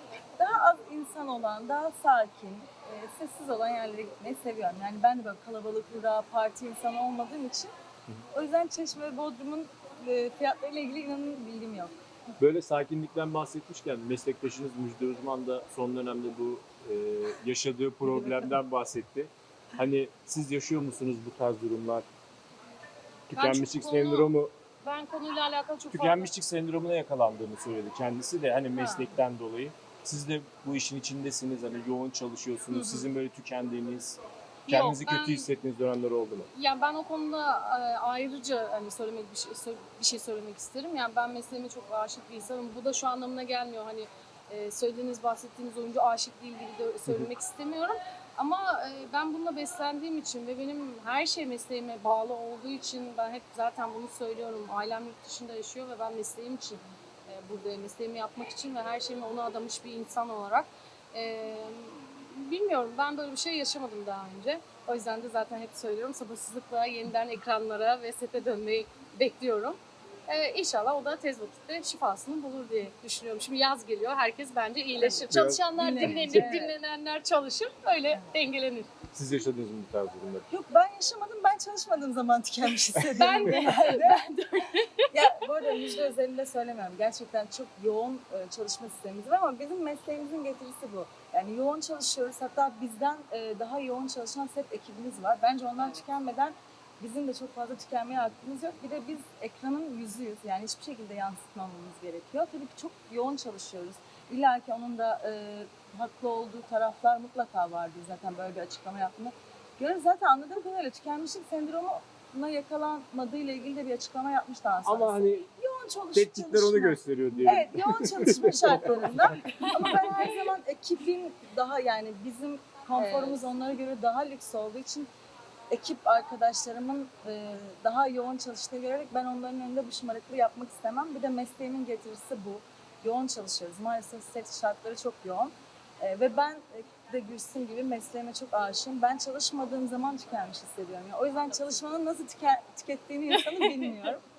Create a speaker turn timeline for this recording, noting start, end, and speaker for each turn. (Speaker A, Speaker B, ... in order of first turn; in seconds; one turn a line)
Speaker A: 0.4-7.7
Speaker A: 8.3-12.0
Speaker B: 12.4-22.1
Speaker B: 23.3-24.5
Speaker C: 23.3-26.3
Speaker B: 25.9-36.5
Speaker C: 28.8-29.1
Speaker C: 32.7-33.1
Speaker C: 34.7-35.5
Speaker C: 36.5-78.9
Speaker A: 75.0-76.8
Speaker B: 75.3-76.6
Speaker B: 79.1-80.5
Speaker A: 80.5-84.3
Speaker C: 83.0-86.0
Speaker A: 85.1-125.1
Speaker B: 114.8-115.5
Speaker B: 116.1-119.7
Speaker C: 119.6-120.3
Speaker C: 123.0-123.4
Speaker A: 125.7-144.2
Speaker C: 143.3-144.1